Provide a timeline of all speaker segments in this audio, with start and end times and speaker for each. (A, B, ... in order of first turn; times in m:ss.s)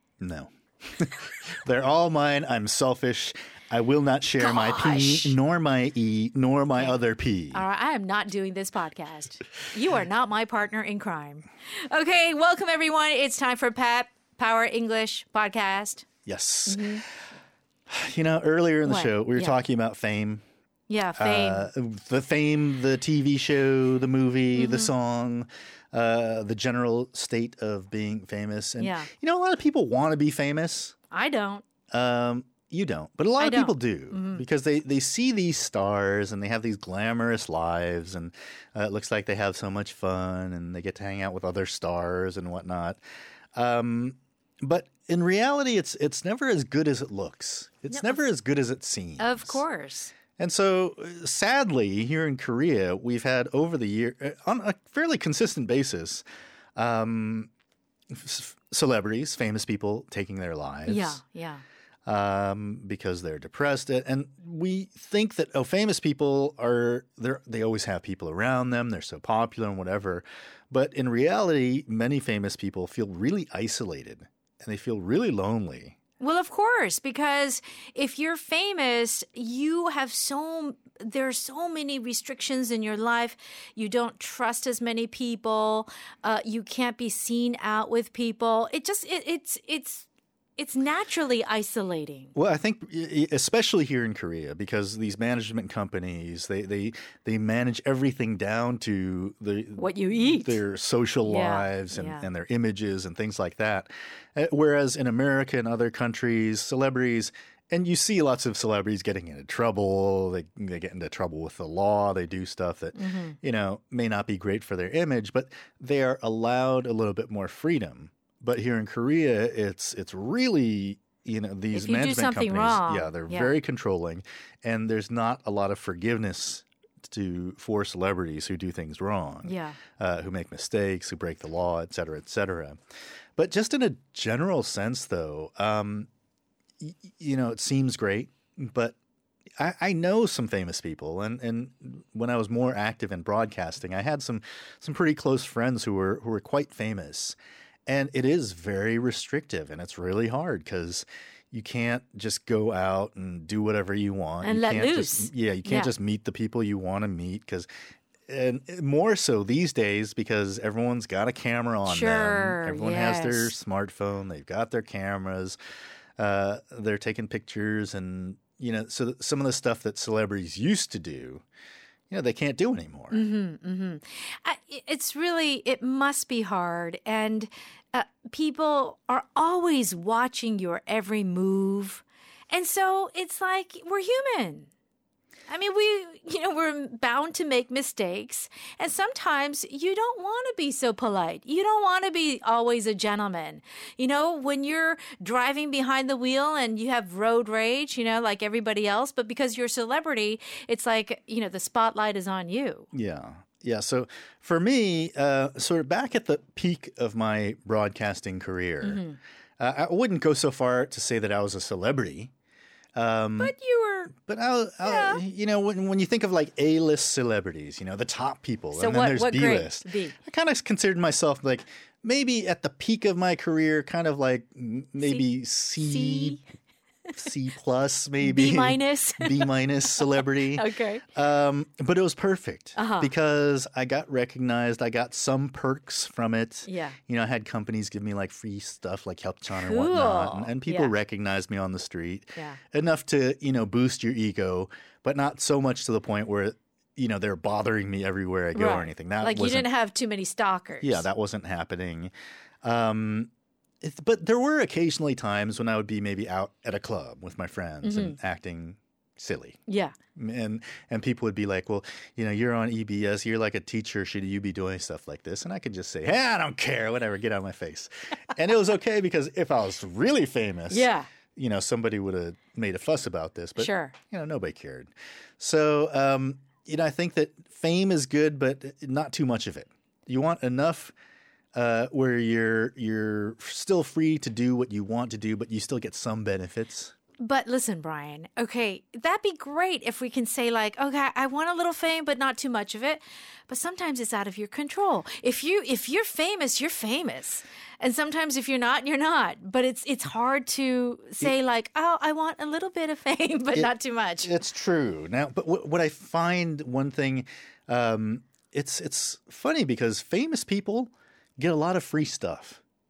0:00.2-0:07.6 A
0:04.4-0:05.4 B
0:07.5-0:16.0 B
0:16.2-0:16.9 A
0:16.7-0:17.0 B
0:17.9-0:20.4 A
0:18.8-0:19.6 B
0:20.9-0:21.7 B
0:21.2-0:30.9 A
0:24.5-0:24.9 B
0:28.8-0:29.1 B
0:31.1-0:31.6 B
0:31.9-0:43.0 A
0:33.4-0:34.4 B
0:43.5-0:49.6 A
0:49.2-0:50.1 B
0:50.4-0:56.2 A
0:56.8-0:57.5 A
0:58.1-1:01.2 A
1:00.9-1:01.6 B
1:02.0-1:16.0 A
1:16.2-1:32.3 B
1:32.3-2:12.8 A
1:39.8-1:40.6 B
1:41.2-1:42.2 B
1:52.9-1:53.4 B
2:01.7-2:03.5 B
2:09.4-2:09.8 B
2:13.4-2:16.1 A
2:16.8-2:19.0 A
2:19.6-2:27.4 A
2:27.9-2:37.7 A
2:34.4-2:35.9 B
2:38.3-2:45.6 A
2:41.8-2:43.5 B
2:46.2-2:51.4 A
2:52.1-2:53.2 A
2:53.1-3:04.7 B
3:05.5-3:22.9 B
3:22.9-3:29.0 A
3:28.8-3:29.2 B
3:29.6-3:32.3 A
3:32.9-3:33.5 A
3:33.4-3:34.1 B
3:34.1-3:46.4 A
3:34.8-3:35.2 B
3:38.7-3:40.1 B
3:45.0-3:45.2 B
3:45.8-3:46.4 B
3:47.1-4:09.7 A
3:48.2-3:51.0 B
3:52.8-3:53.1 B
3:56.6-3:57.0 B
3:59.5-4:00.9 B
4:08.5-4:11.1 B
4:10.8-4:12.1 A
4:12.6-4:13.3 A
4:13.8-4:19.6 A
4:17.8-4:18.2 B
4:19.7-4:19.9 B
4:20.1-4:40.9 A
4:30.7-4:31.1 B
4:33.6-4:33.9 B
4:41.5-4:46.9 A
4:47.2-5:04.3 B
5:03.5-5:12.6 A